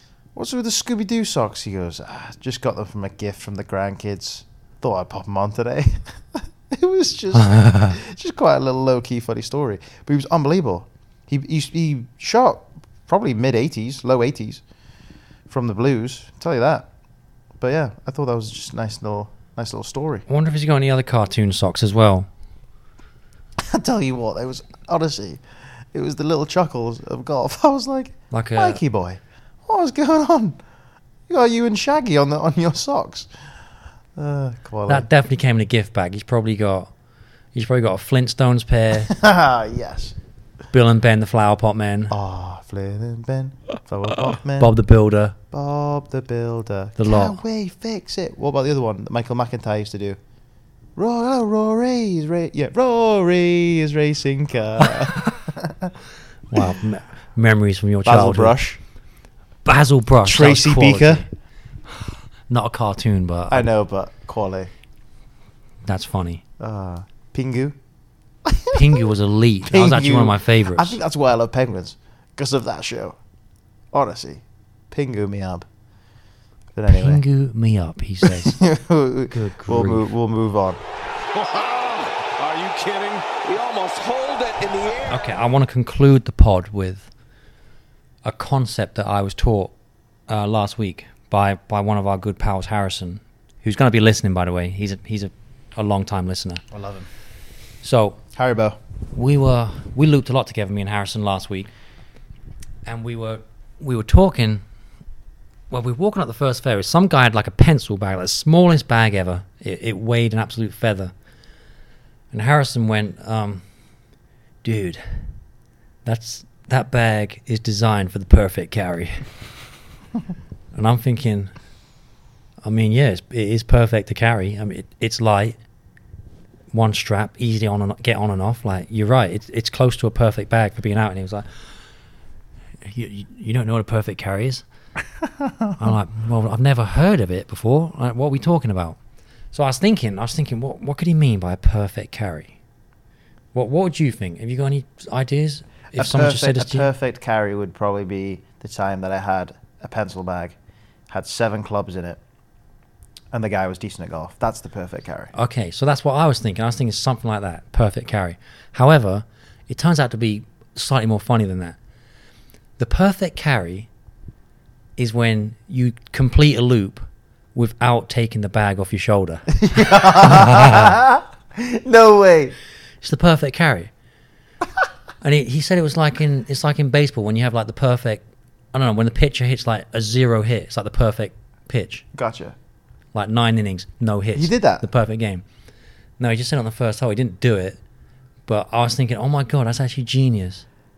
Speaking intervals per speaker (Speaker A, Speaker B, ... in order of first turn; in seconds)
Speaker A: 0.3-14.6, 15.5-16.9, 17.6-20.2, 23.6-25.4, 25.9-30.6, 31.3-33.3, 34.1-35.0, 39.1-40.1, 42.1-44.7, 45.5-50.2, 51.0-55.9, 58.0-58.8, 60.2-61.2, 63.5-64.7, 66.6-67.8, 68.5-68.8, 69.7-73.2, 73.9-75.7, 76.7-77.2, 78.2-80.8, 96.7-97.1, 98.3-98.8, 135.4-135.7, 145.9-150.5, 151.1-152.2, 153.3-155.3, 169.6-172.6, 182.1-182.6, 184.3-184.8
Speaker B: 7.3-8.0, 20.3-22.3, 28.3-28.8, 34.9-36.9, 37.5-39.1, 40.7-42.1, 44.6-45.4, 47.0-47.4, 56.5-58.6, 59.6-61.3, 62.5-63.7, 65.8-66.4, 68.7-71.0, 76.9-78.6, 79.3-80.1, 85.1-87.1, 88.2-89.7, 90.3-96.6, 97.8-98.2, 99.1-101.7, 102.8-104.6, 105.7-111.1, 112.3-113.6, 114.6-115.3, 116.0-119.4, 120.7-121.5, 122.6-125.6, 126.7-131.7, 132.9-134.6, 135.8-139.0, 139.5-142.6, 143.5-146.9, 155.3-161.8, 162.8-163.9, 165.0-171.0, 173.0-173.9, 175.2-178.2, 178.7-182.0, 183.1-185.4, 186.2-187.8, 188.5-190.7
Speaker C: 81.3-85.2